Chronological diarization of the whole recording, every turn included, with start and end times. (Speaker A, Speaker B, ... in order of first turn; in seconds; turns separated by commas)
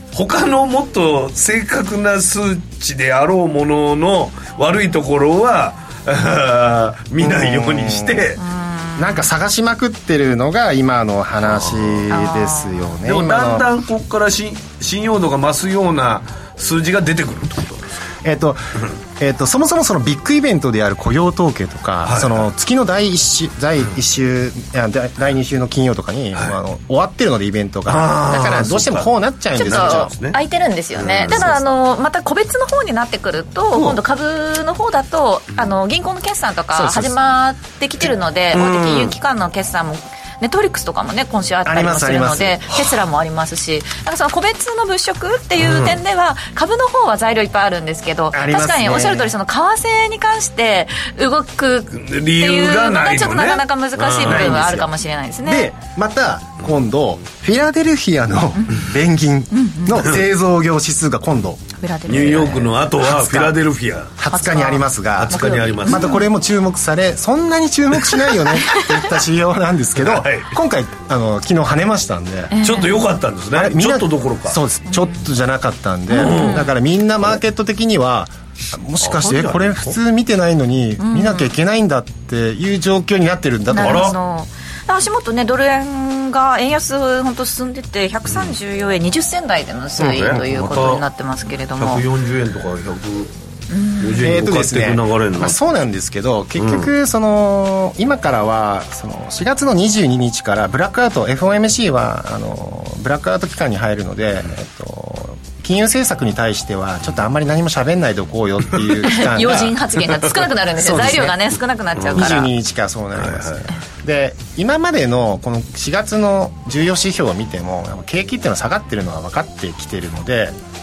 Speaker A: 0.1-8.4, Speaker B: 7.2-8.4, Speaker C: 8.4-9.3, Speaker B: 9.0-13.7, Speaker A: 11.4-12.1, Speaker C: 12.1-12.9, Speaker A: 13.1-17.9, Speaker B: 18.2-30.1, Speaker A: 22.1-22.5, Speaker A: 27.9-30.4, Speaker C: 29.6-55.7, Speaker A: 31.0-31.6, Speaker B: 31.2-31.6, Speaker B: 33.7-34.0, Speaker B: 36.8-37.1, Speaker A: 38.5-39.1, Speaker B: 41.7-42.7, Speaker A: 45.7-46.0, Speaker B: 48.3-49.3, Speaker A: 51.9-54.7, Speaker B: 54.2-54.9, Speaker B: 55.4-61.7, Speaker C: 58.6-58.8, Speaker C: 59.5-60.1, Speaker C: 61.8-62.7, Speaker A: 62.1-64.2, Speaker B: 62.9-63.6, Speaker B: 64.2-72.6, Speaker C: 64.3-66.2, Speaker A: 65.2-66.1, Speaker C: 68.5-68.9, Speaker A: 70.0-70.5, Speaker C: 72.5-73.0, Speaker A: 72.6-74.6, Speaker B: 73.5-84.2, Speaker C: 74.9-75.2, Speaker A: 76.1-76.7, Speaker C: 76.1-76.7, Speaker A: 79.0-80.0, Speaker C: 81.0-81.5, Speaker C: 83.7-92.0, Speaker A: 83.8-84.2, Speaker A: 90.0-91.0, Speaker A: 91.8-93.3, Speaker C: 93.7-94.3, Speaker A: 94.0-95.6, Speaker B: 94.2-109.8, Speaker A: 96.6-96.9, Speaker C: 109.0-112.5, Speaker B: 110.8-111.4, Speaker A: 112.0-112.4, Speaker B: 112.1-120.5, Speaker A: 113.2-113.6